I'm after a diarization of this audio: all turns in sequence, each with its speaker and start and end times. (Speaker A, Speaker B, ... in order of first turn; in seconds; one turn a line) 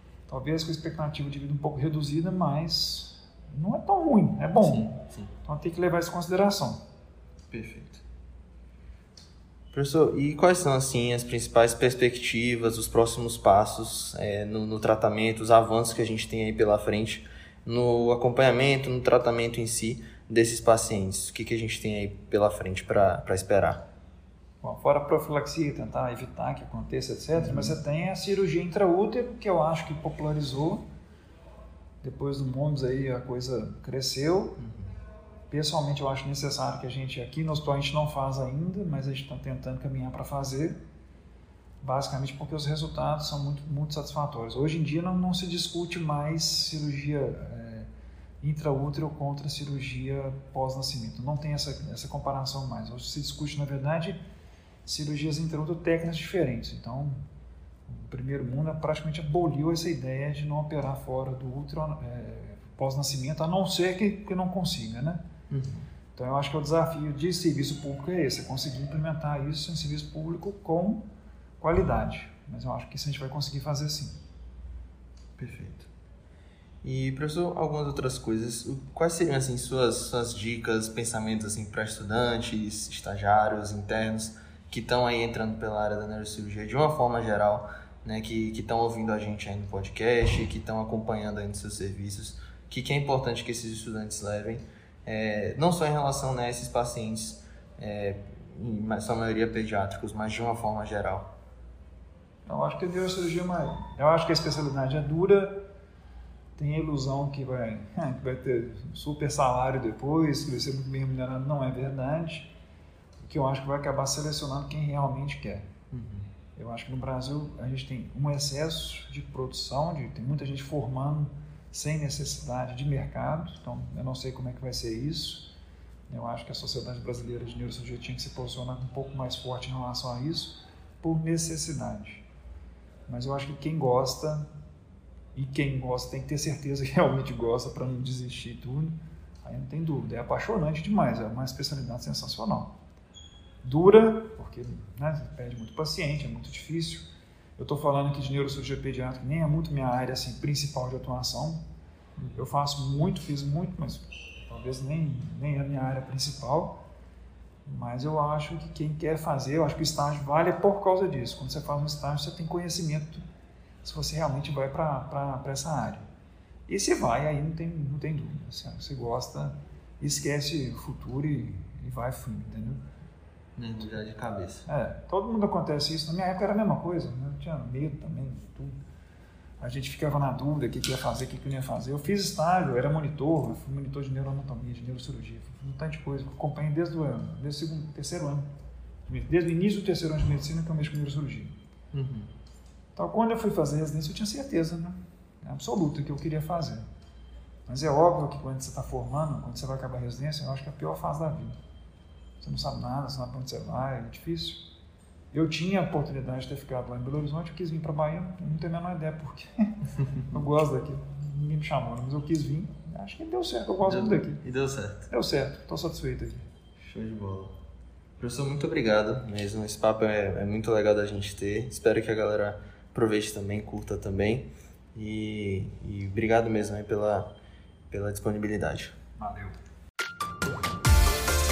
Speaker A: 0.3-6.8
Speaker B: 4.6-5.3
Speaker B: 7.5-8.0
Speaker B: 9.7-23.8
Speaker A: 24.6-30.8
Speaker B: 27.3-27.8
Speaker A: 32.0-34.6
Speaker B: 34.6-34.9
Speaker A: 35.5-40.8
Speaker A: 41.8-47.9
Speaker A: 48.4-54.2
Speaker A: 54.8-57.2
Speaker A: 57.9-65.2
Speaker B: 65.5-65.8
Speaker A: 66.1-71.0
Speaker A: 71.6-74.2
Speaker B: 75.4-75.9
Speaker B: 76.8-101.3
Speaker A: 102.5-105.7
Speaker A: 106.5-112.5
Speaker A: 113.2-115.7
Speaker B: 115.9-116.3
Speaker A: 116.5-125.5
Speaker A: 126.1-132.2
Speaker A: 133.1-134.5
Speaker A: 135.3-142.7
Speaker A: 143.6-151.6
Speaker B: 152.2-152.4
Speaker A: 152.3-156.8
Speaker A: 157.6-163.2
Speaker A: 163.8-166.0
Speaker A: 166.7-172.8
Speaker B: 173.6-174.7
Speaker A: 174.7-178.8
Speaker A: 179.6-188.5
Speaker A: 189.1-191.6
Speaker B: 191.9-192.3
Speaker A: 192.9-196.8
Speaker A: 197.7-201.6
Speaker A: 202.4-204.6
Speaker A: 205.3-209.7
Speaker A: 210.3-214.4
Speaker B: 213.8-215.1
Speaker A: 215.1-216.5
Speaker B: 216.8-217.5
Speaker B: 218.2-227.3
Speaker B: 227.9-228.9
Speaker A: 229.2-229.6